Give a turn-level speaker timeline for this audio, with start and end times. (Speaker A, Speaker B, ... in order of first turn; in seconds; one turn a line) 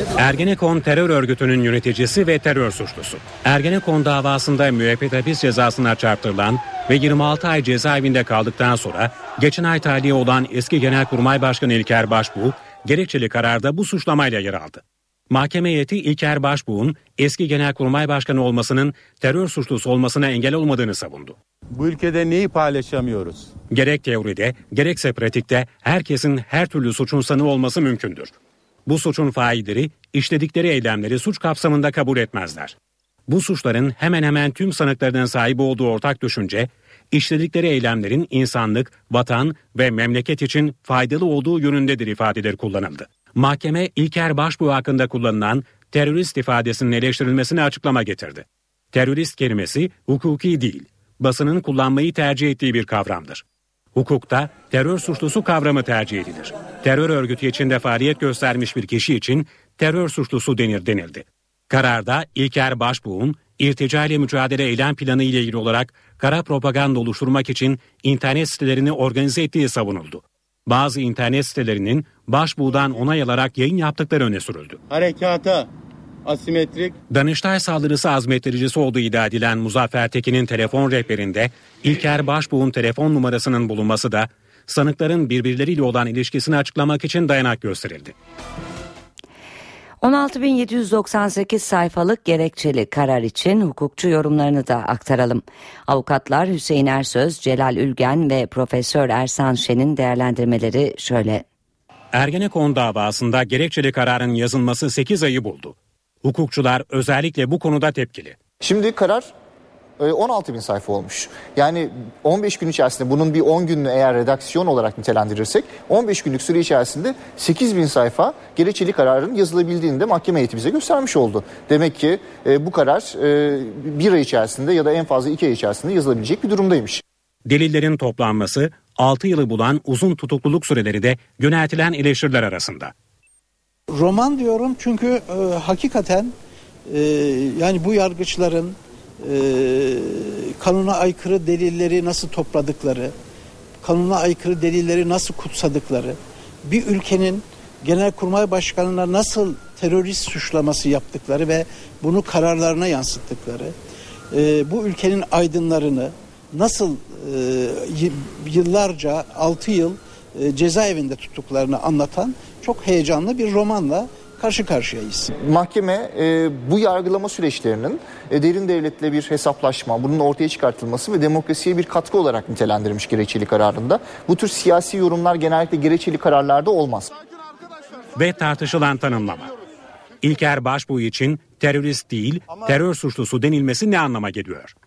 Speaker A: 0.2-21.4
Speaker B: 21.8-23.5
Speaker A: 23.7-28.3
Speaker A: 28.9-32.8
Speaker A: 33.3-53.4
Speaker A: 54.0-74.8
Speaker B: 74.9-75.7
Speaker B: 76.2-77.0
Speaker A: 77.1-88.1
Speaker C: 90.0-101.5
Speaker A: 102.1-108.4
Speaker D: 108.6-109.3
Speaker D: 110.0-127.0
Speaker A: 127.5-132.9
Speaker E: 133.9-136.3
Speaker E: 136.9-143.1
Speaker E: 143.8-153.7
Speaker E: 154.3-165.3
Speaker D: 165.3-177.1
Speaker A: 178.2-179.5
Speaker A: 180.2-184.7